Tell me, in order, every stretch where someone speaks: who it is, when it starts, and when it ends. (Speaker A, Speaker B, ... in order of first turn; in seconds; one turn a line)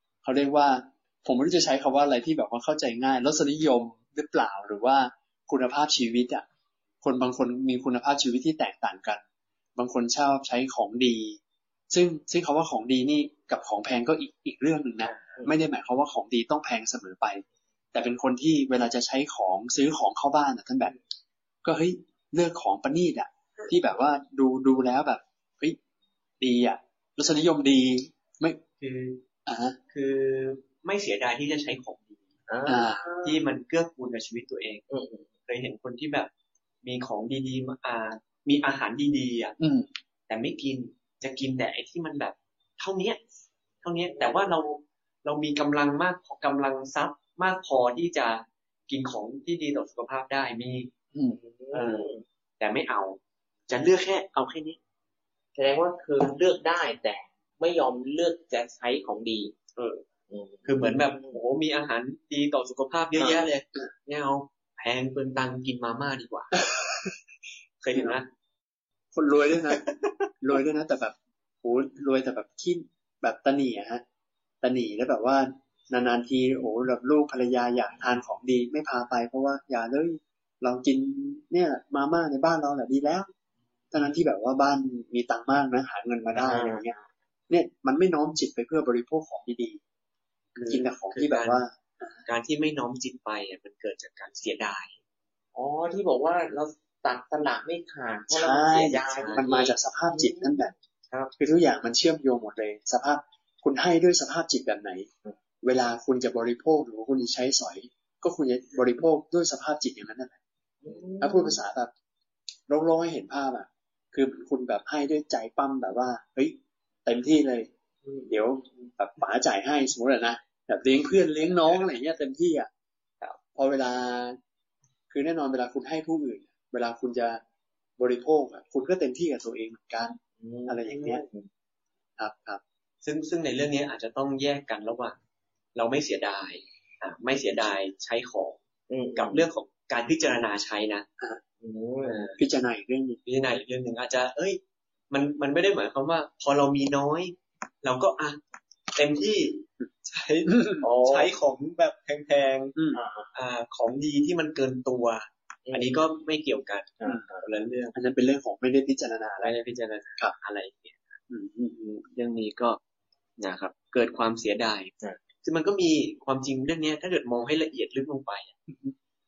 Speaker A: 0.2-6.5
Speaker A: 7.0-9.2
Speaker A: 9.8-20.9
Speaker B: 15.2-15.5
Speaker A: 21.6-25.8
Speaker A: 26.4-28.6
Speaker C: 28.8-29.2
Speaker A: 29.5-29.8
Speaker C: 29.9-32.2
Speaker B: 32.5-33.5
Speaker A: 32.7-33.0
Speaker C: 33.2-34.9
Speaker B: 34.9-35.3
Speaker C: 35.5-36.3
Speaker C: 36.8-39.6
Speaker A: 39.6-39.9
Speaker C: 40.3-43.2
Speaker C: 43.8-50.9
Speaker B: 44.1-44.5
Speaker A: 51.1-51.4
Speaker B: 51.3-52.2
Speaker C: 51.7-54.8
Speaker B: 55.6-59.5
Speaker C: 59.8-60.0
Speaker B: 60.3-61.4
Speaker C: 60.7-66.6
Speaker C: 67.8-68.3
Speaker A: 69.1-69.9
Speaker C: 69.7-70.1
Speaker A: 70.4-74.0
Speaker A: 74.6-83.3
Speaker A: 83.9-87.0
Speaker B: 86.4-87.0
Speaker A: 87.5-89.8
Speaker C: 90.6-91.6
Speaker A: 90.7-92.2
Speaker C: 92.3-94.9
Speaker B: 95.5-101.3
Speaker A: 98.3-100.7
Speaker C: 99.2-99.5
Speaker A: 101.4-105.1
Speaker A: 105.6-110.4
Speaker B: 110.8-111.6
Speaker A: 111.2-111.9
Speaker A: 112.7-117.7
Speaker B: 118.0-118.4
Speaker A: 118.3-122.7
Speaker A: 123.6-124.4
Speaker A: 125.1-127.4
Speaker A: 128.0-131.2
Speaker B: 130.4-131.5
Speaker A: 132.2-132.6
Speaker C: 133.0-135.2
Speaker C: 135.8-138.6
Speaker B: 138.9-139.5
Speaker C: 139.2-141.1
Speaker B: 141.6-142.3
Speaker C: 142.1-142.4
Speaker A: 142.4-143.2
Speaker C: 143.3-148.4
Speaker C: 148.9-152.8
Speaker A: 150.5-150.8
Speaker B: 150.8-151.3
Speaker A: 152.8-153.0
Speaker B: 152.9-153.3
Speaker C: 153.3-157.9
Speaker B: 155.7-156.0
Speaker B: 157.0-157.4
Speaker A: 157.9-159.6
Speaker C: 159.4-161.2
Speaker A: 161.3-161.8
Speaker C: 161.8-162.8
Speaker C: 163.4-168.6